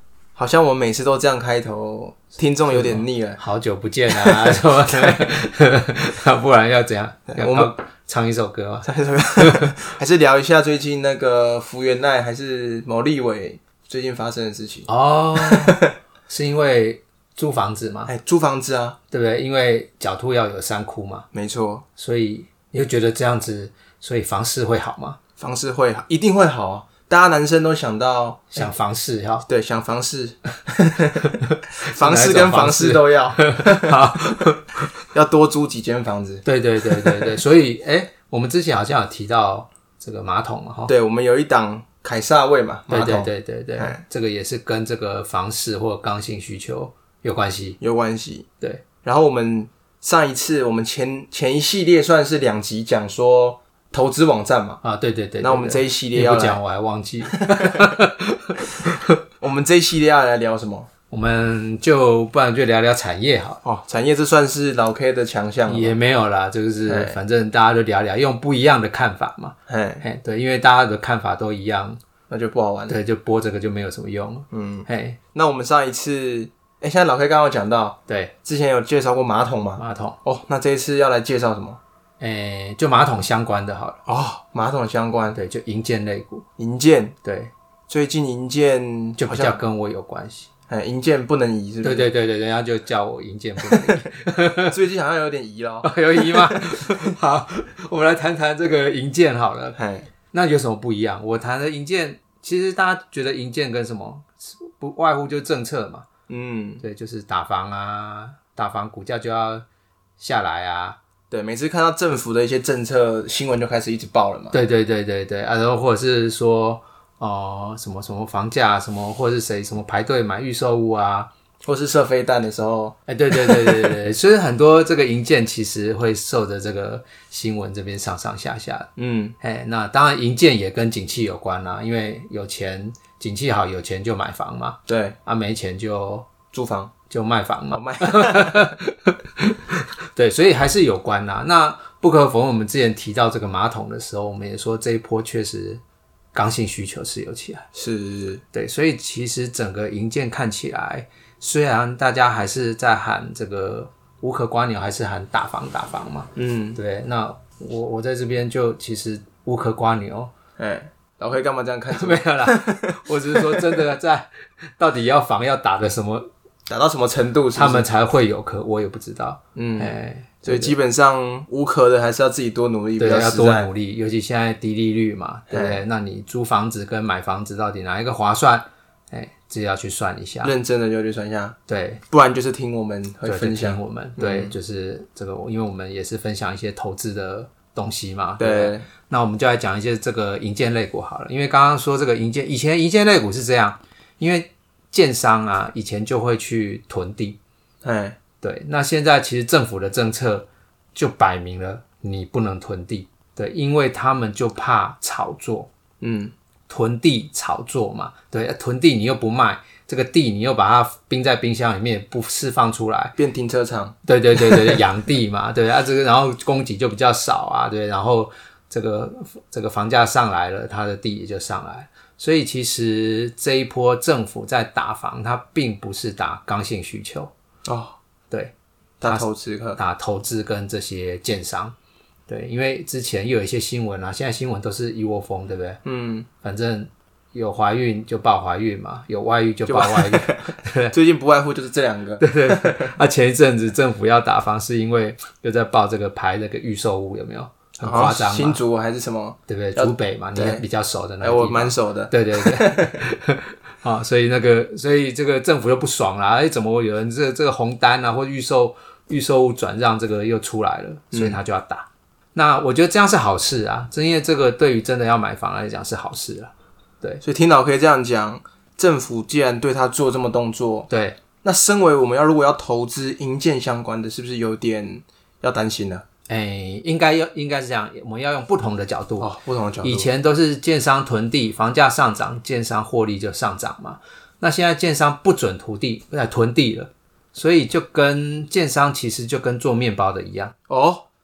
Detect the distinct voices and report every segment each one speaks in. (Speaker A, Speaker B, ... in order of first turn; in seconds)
Speaker A: 0.4-3.4, 4.1-5.2, 7.3-7.7, 8.8-15.9, 18.1-19.0, 21.3-21.9, 25.4-28.7, 29.5-34.0, 35.1-36.5, 40.9-44.0, 47.8-48.5, 49.0-54.8, 55.4-56.6, 57.3-57.8, 59.4-60.9, 63.6-66.0, 66.9-67.2, 69.7-70.0, 72.3-73.0, 74.5-81.8, 84.1-85.4, 86.6-87.2, 87.9-89.6, 90.7-92.1, 94.6-96.9, 99.8-100.1, 106.3-106.8, 111.3-114.6, 121.7-123.9, 129.0-129.4, 134.9-135.2, 136.5-136.9, 137.7-138.7, 147.7-148.4, 156.4-156.8, 160.6-163.8, 166.7-167.9, 169.6-173.7, 175.5-175.8, 180.4-181.6, 182.1-184.5, 188.4-188.9, 197.8-198.2, 206.0-206.3, 213.2-214.7, 227.7-228.0, 229.0-229.8, 235.8-236.3, 239.7-242.9, 247.8-250.7, 251.2-253.0, 261.1-261.4, 267.2-270.9, 271.4-276.1, 279.2-280.1, 290.7-291.1
Speaker B: 2.7-9.7, 14.9-18.1, 19.1-21.3, 22.0-25.2, 28.6-29.5, 32.0-34.9, 36.5-40.9, 42.9-47.8, 54.8-58.9, 61.1-63.6, 65.7-72.0, 72.9-75.2, 78.1-78.3, 79.8-80.2, 82.2-84.0, 85.3-86.4, 87.2-87.5, 89.2-90.5, 91.8-94.8, 95.8-99.8, 100.3-106.1, 106.8-109.7, 110.2-111.0, 114.5-121.3, 123.1-128.9, 129.4-136.3, 137.1-145.8, 146.3-147.7, 148.5-160.3, 161.9-166.3, 167.6-170.8, 173.0-180.5, 181.7-182.0, 183.2-197.4, 198.4-205.7, 206.7-213.2, 214.1-227.3, 228.3-231.8, 232.3-235.8, 236.4-240.9, 242.2-248.6, 249.5-267.2, 270.9-271.2, 276.3-279.3, 279.8-290.5